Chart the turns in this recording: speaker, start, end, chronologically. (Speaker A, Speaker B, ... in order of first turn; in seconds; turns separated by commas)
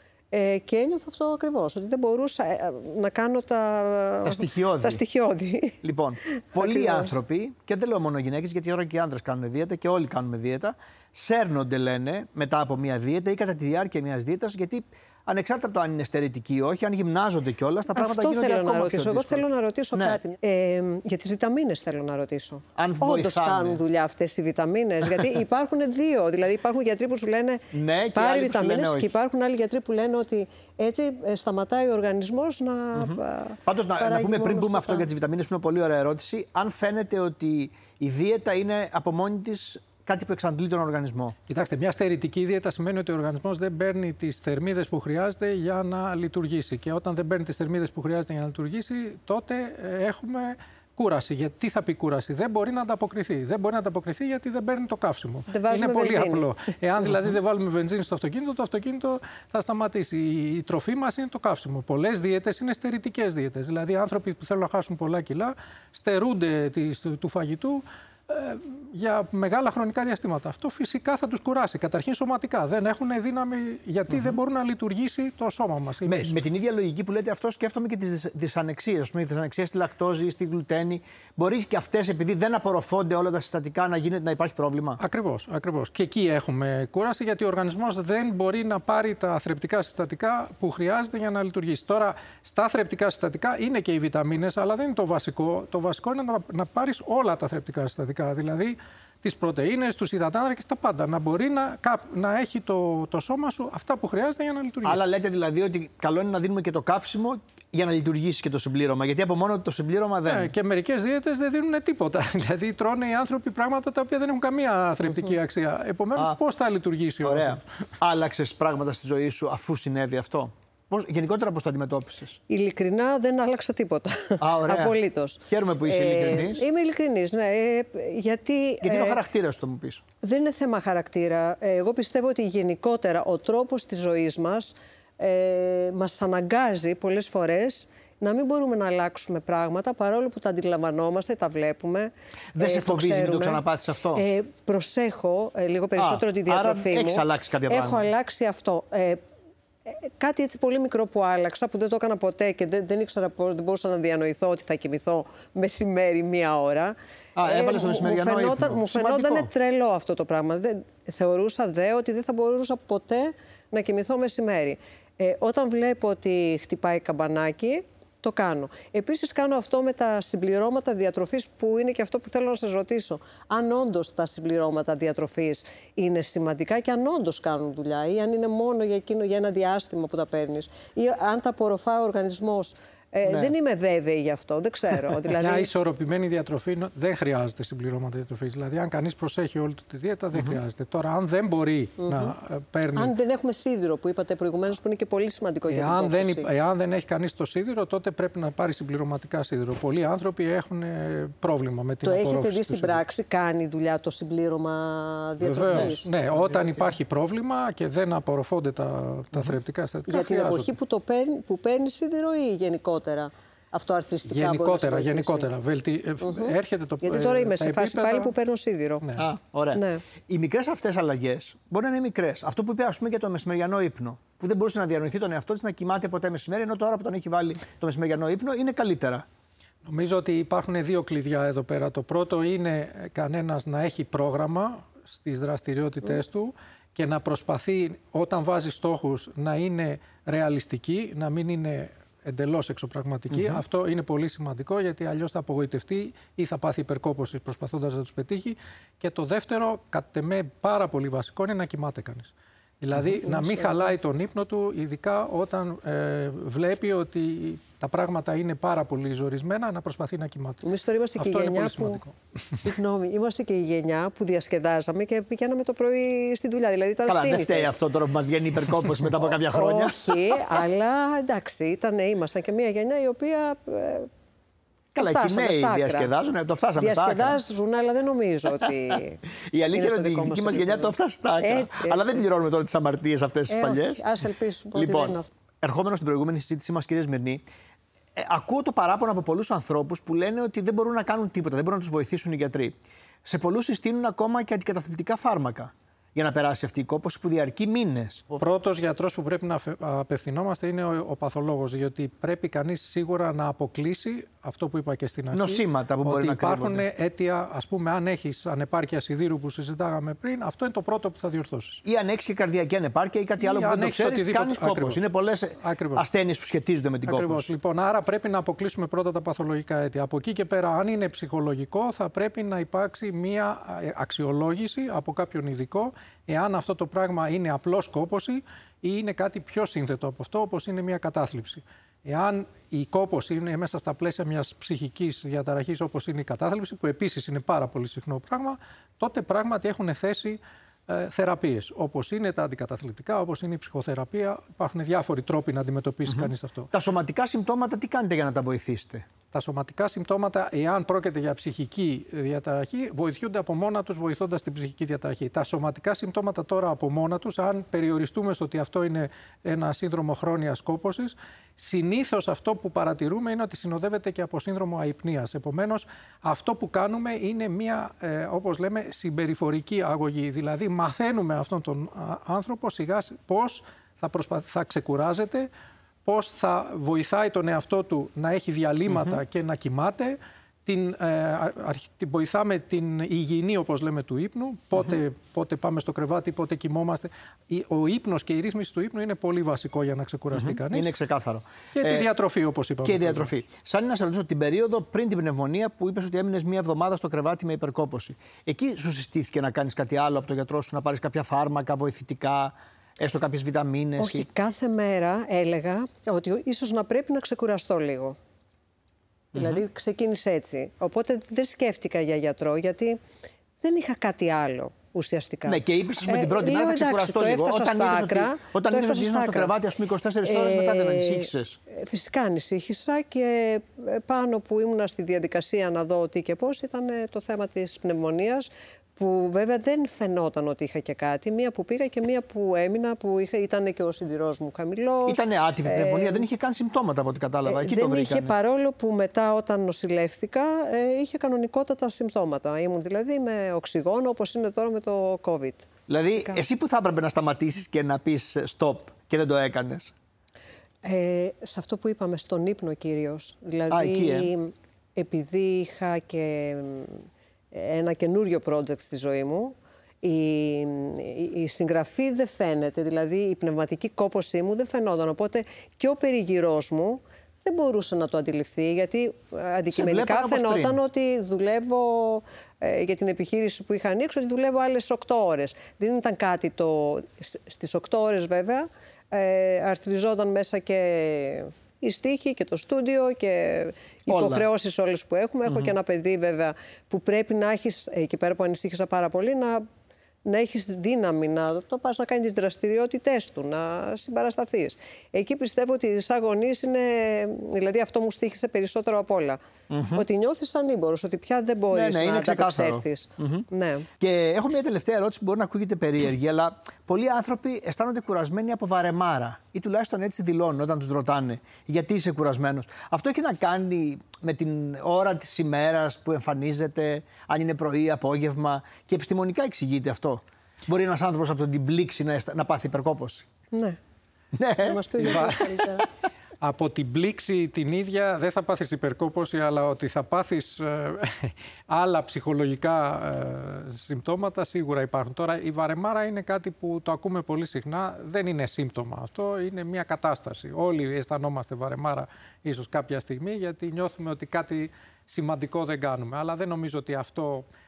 Speaker A: 0.3-5.8, Speaker B: 4.2-5.0, Speaker B: 5.8-20.2, Speaker A: 6.4-7.2, Speaker A: 17.9-35.1, Speaker B: 22.8-23.8, Speaker B: 27.7-29.2, Speaker B: 33.0-41.4, Speaker C: 41.5-76.4, Speaker A: 55.5-56.5, Speaker B: 74.1-74.4, Speaker B: 76.1-85.0, Speaker C: 85.0-105.0, Speaker B: 104.8-110.5, Speaker C: 110.3-117.6, Speaker B: 117.2-122.4, Speaker A: 122.5-129.2, Speaker B: 124.4-126.6, Speaker B: 128.8-130.0, Speaker A: 130.2-143.6, Speaker B: 142.6-144.2, Speaker A: 144.1-149.2, Speaker B: 146.0-148.1, Speaker A: 149.9-185.7, Speaker B: 157.4-159.5, Speaker B: 183.3-183.5, Speaker C: 185.4-193.1, Speaker B: 190.3-190.6, Speaker A: 192.0-192.3, Speaker A: 193.0-196.5, Speaker C: 195.7-203.0, Speaker A: 202.0-206.9, Speaker C: 205.4-210.7, Speaker B: 205.7-206.0, Speaker A: 210.1-215.5, Speaker C: 214.3-218.3, Speaker A: 216.2-219.0, Speaker B: 219.2-229.2, Speaker A: 219.8-220.0, Speaker C: 229.8-260.7, Speaker B: 243.3-243.6, Speaker A: 253.2-253.9, Speaker A: 260.6-262.0, Speaker C: 261.2-262.7, Speaker A: 262.6-267.8, Speaker B: 267.1-270.6, Speaker A: 269.2-274.1, Speaker B: 274.9-277.4, Speaker A: 275.0-276.1, Speaker A: 276.8-279.2, Speaker B: 278.6-279.0, Speaker B: 279.5-284.0, Speaker A: 279.7-282.1, Speaker A: 283.5-285.3, Speaker B: 284.8-287.4, Speaker B: 288.1-298.4, Speaker C: 298.4-311.8, Speaker B: 305.3-306.9, Speaker B: 311.9-317.5, Speaker C: 313.4-315.0, Speaker C: 315.6-316.0, Speaker C: 317.1-346.7, Speaker B: 346.1-349.1, Speaker C: 349.3-375.5, Speaker C: 376.1-390.9, Speaker B: 378.9-379.2, Speaker B: 390.3-392.1, Speaker C: 391.8-393.3, Speaker B: 392.8-404.3, Speaker A: 404.0-408.2, Speaker B: 409.3-409.6, Speaker A: 409.3-413.0, Speaker A: 413.6-419.5, Speaker B: 415.5-421.6, Speaker A: 420.2-436.2, Speaker B: 435.1-438.3, Speaker A: 437.5-446.4, Speaker B: 445.9-449.9, Speaker A: 450.8-489.7, Speaker B: 453.7-454.3, Speaker B: 469.7-470.8, Speaker B: 484.1-484.5, Speaker A: 490.2-499.4, Speaker B: 499.7-500.1, Speaker A: 499.9-503.9, Speaker B: 501.7-503.4, Speaker B: 504.0-523.3, Speaker A: 523.5-523.8, Speaker B: 524.4-525.4, Speaker A: 524.6-525.9, Speaker C: 525.0-525.4, Speaker C: 526.4-547.5